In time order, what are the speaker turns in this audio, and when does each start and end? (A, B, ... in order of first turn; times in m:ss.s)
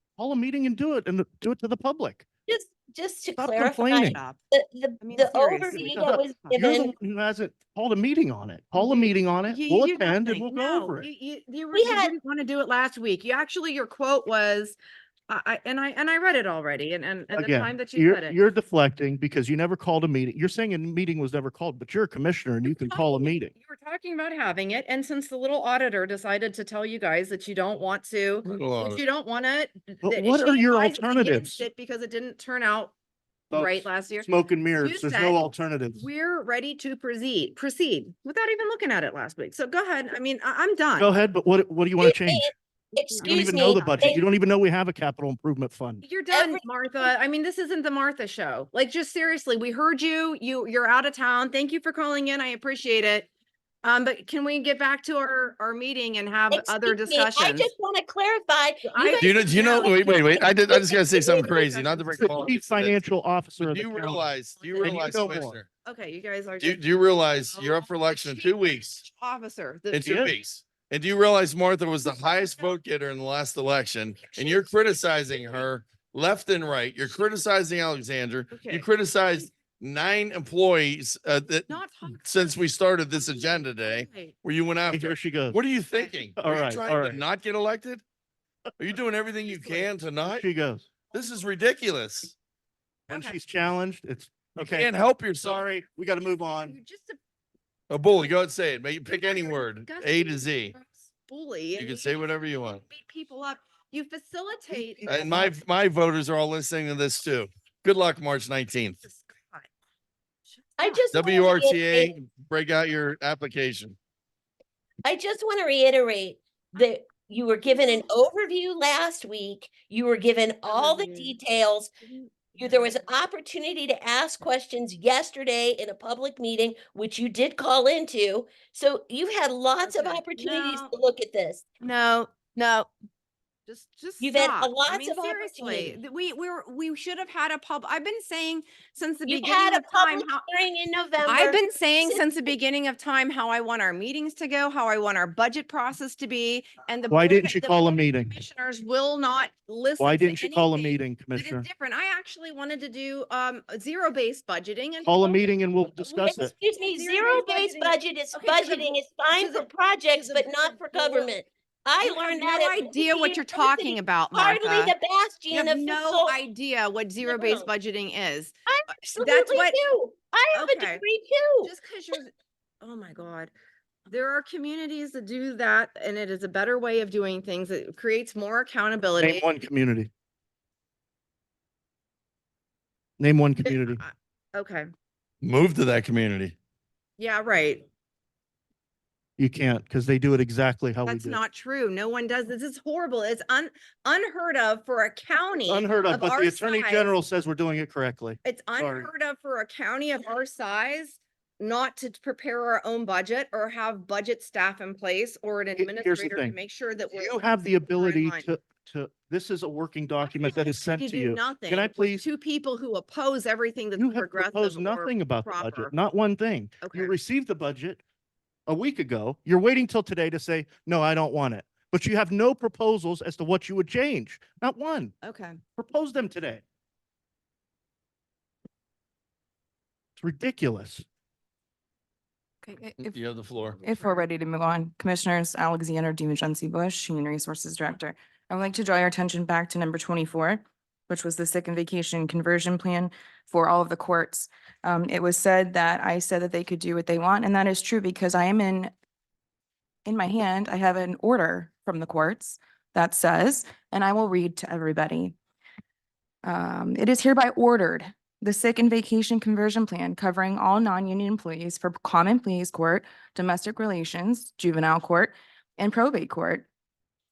0:00.2-0:02.2 A
0:02.5-0:06.9 B
0:03.4-0:04.2 A
0:04.0-0:04.4 C
0:05.0-0:06.6 C
0:05.7-0:11.1 A
0:08.8-0:14.8 C
0:11.7-0:12.1 B
0:15.3-0:18.4 C
0:17.3-0:23.5 A
0:22.6-0:32.9 C
0:28.4-0:29.0 D
0:30.0-0:31.6 A
0:33.5-0:36.1 A
0:33.5-0:35.4 C
0:36.0-0:41.1 C
0:41.0-0:42.5 A
0:42.0-0:44.2 B
0:42.9-0:44.2 C
0:43.2-0:46.0 A
0:46.0-0:53.3 C
0:46.3-0:47.1 B
0:53.8-0:57.7 C
0:56.5-1:01.6 B
0:58.9-1:02.5 C
0:59.2-1:03.0 D
1:02.1-1:04.3 A
1:03.6-1:05.7 D
1:04.5-1:06.8 C
1:04.8-1:05.6 A
1:06.6-1:09.0 D
1:07.5-1:10.3 C
1:09.9-1:28.0 D
1:10.0-1:10.3 A
1:14.3-1:14.9 C
1:18.5-1:19.4 C
1:21.7-1:22.5 C
1:23.1-1:24.4 C
1:24.9-1:25.6 A
1:26.4-1:27.2 A
1:28.8-1:30.4 D
1:29.5-1:29.9 C
1:30.2-1:30.9 A
1:31.1-1:32.3 D
1:33.1-1:33.4 C
1:33.1-1:34.9 A
1:34.6-1:35.6 D
1:35.4-1:36.8 A
1:36.6-1:37.2 C
1:37.9-1:40.7 D
1:39.2-1:42.1 C
1:41.8-1:42.8 D
1:42.8-1:45.2 C
1:44.7-1:45.6 A
1:45.1-1:49.0 D
1:49.0-1:49.7 C
1:50.5-1:51.1 C
1:50.8-1:52.1 B
1:51.1-1:54.0 D
1:55.0-2:01.9 B
1:57.7-1:58.1 C
2:00.7-2:01.4 C
2:02.0-2:02.9 C
2:02.5-2:11.6 B
2:09.8-2:10.9 C
2:11.8-2:12.9 C
2:13.7-2:20.5 C
2:14.2-2:16.0 B
2:19.2-2:22.2 B
2:21.2-2:41.3 C
2:27.1-2:28.4 A
2:30.0-2:31.7 A
2:35.0-2:36.5 A
2:36.2-2:46.4 B
2:42.0-2:44.9 C
2:45.5-2:48.5 C
2:47.2-2:47.7 B
2:48.6-2:51.7 B
2:49.2-2:49.8 C
2:50.5-2:51.0 C
2:51.6-2:53.5 C
2:54.1-2:59.4 C
2:59.2-3:00.1 A
3:03.2-3:04.0 A
3:03.6-3:04.9 C
3:05.4-3:06.5 D
3:07.2-3:07.8 C
3:09.4-3:11.4 A
3:11.0-3:17.1 C
3:15.7-3:19.1 A
3:18.4-3:27.4 C
3:25.8-3:26.6 A
3:27.1-3:32.2 A
3:27.9-3:28.5 C
3:30.9-3:35.9 C
3:34.0-3:38.0 A
3:36.8-3:37.1 C
3:38.7-3:45.1 A
3:45.2-3:45.6 C
3:45.8-3:46.6 A
3:50.2-3:51.0 A
3:52.6-3:53.2 E
3:53.0-3:53.8 D
3:53.8-4:08.9 E
4:10.0-4:15.4 E
4:16.4-4:26.7 E